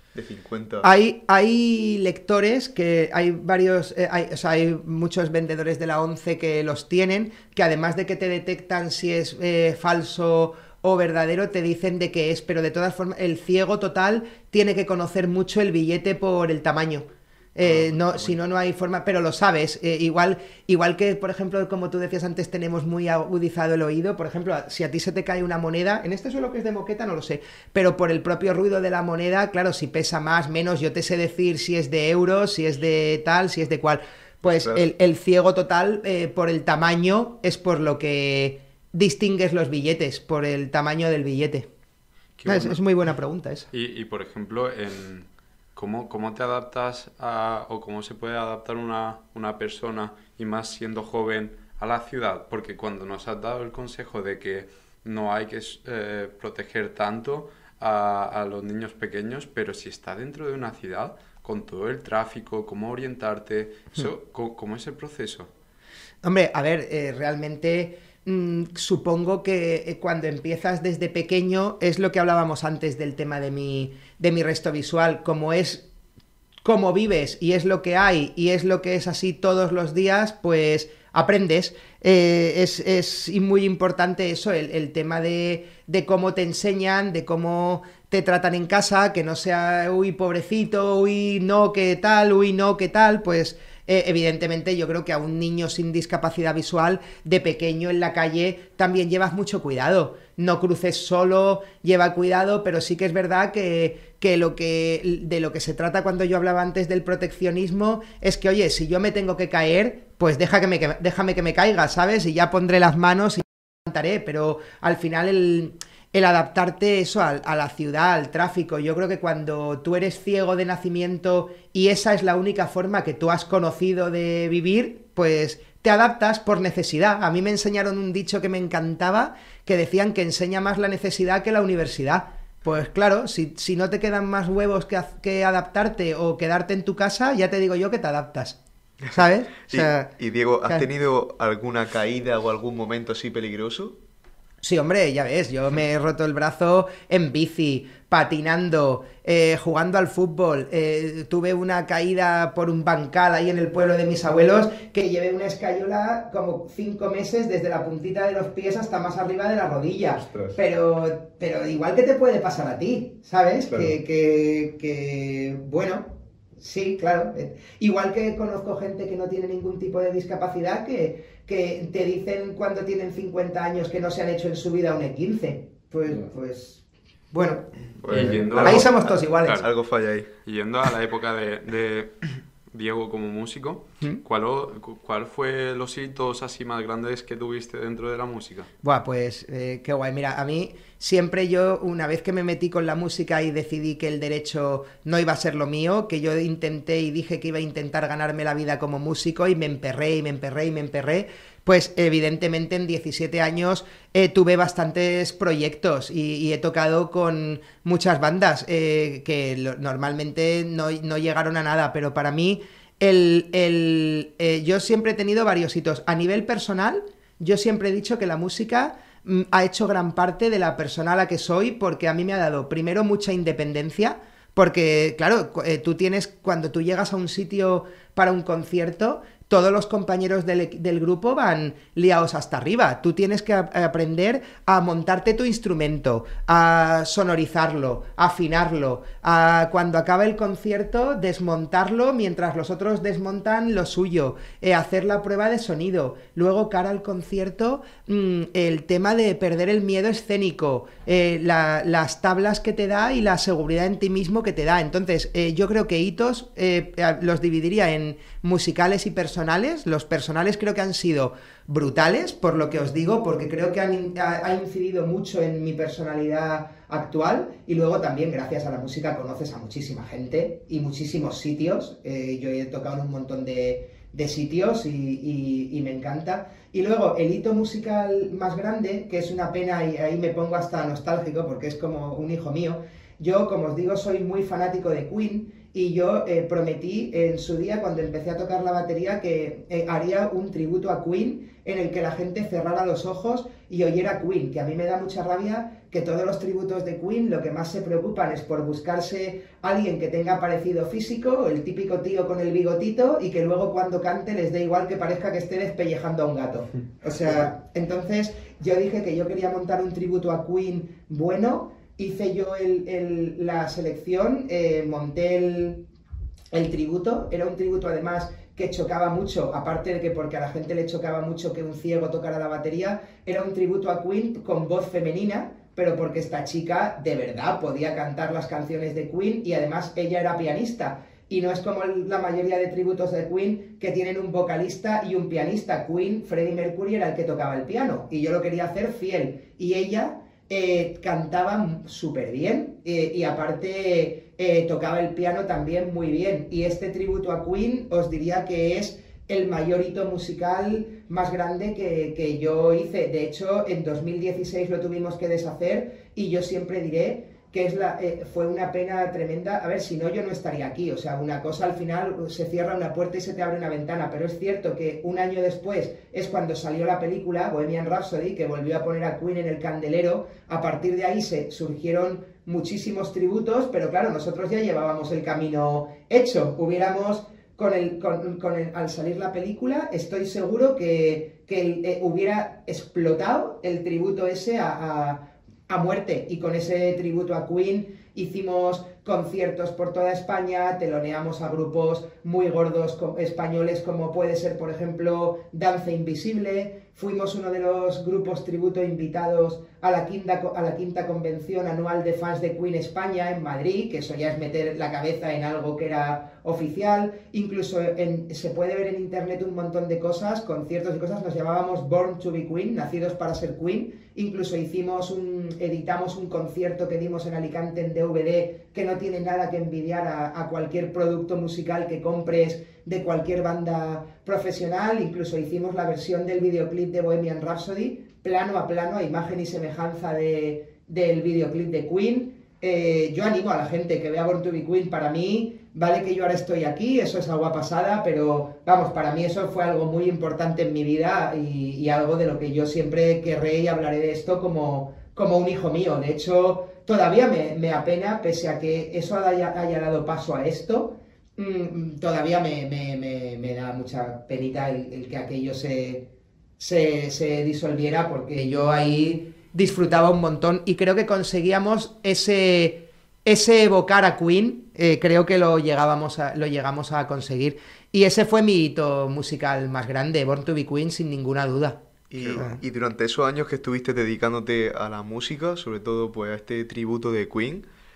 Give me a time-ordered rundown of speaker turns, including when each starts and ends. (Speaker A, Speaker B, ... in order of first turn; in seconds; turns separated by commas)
Speaker A: 0.1-0.9, Speaker B: 0.8-41.7, Speaker A: 34.5-34.8, Speaker C: 42.4-42.8, Speaker B: 42.5-43.7, Speaker C: 43.7-65.5, Speaker B: 66.2-75.9, Speaker B: 76.6-138.6, Speaker B: 139.1-140.1, Speaker A: 139.7-144.0, Speaker B: 144.6-177.7, Speaker A: 160.3-160.6, Speaker A: 178.0-180.3, Speaker C: 178.1-179.7, Speaker B: 178.6-179.6, Speaker C: 180.4-188.7, Speaker B: 188.8-315.9, Speaker B: 316.5-456.1, Speaker B: 456.6-471.8, Speaker A: 472.1-477.6, Speaker C: 472.2-472.5, Speaker B: 472.3-472.6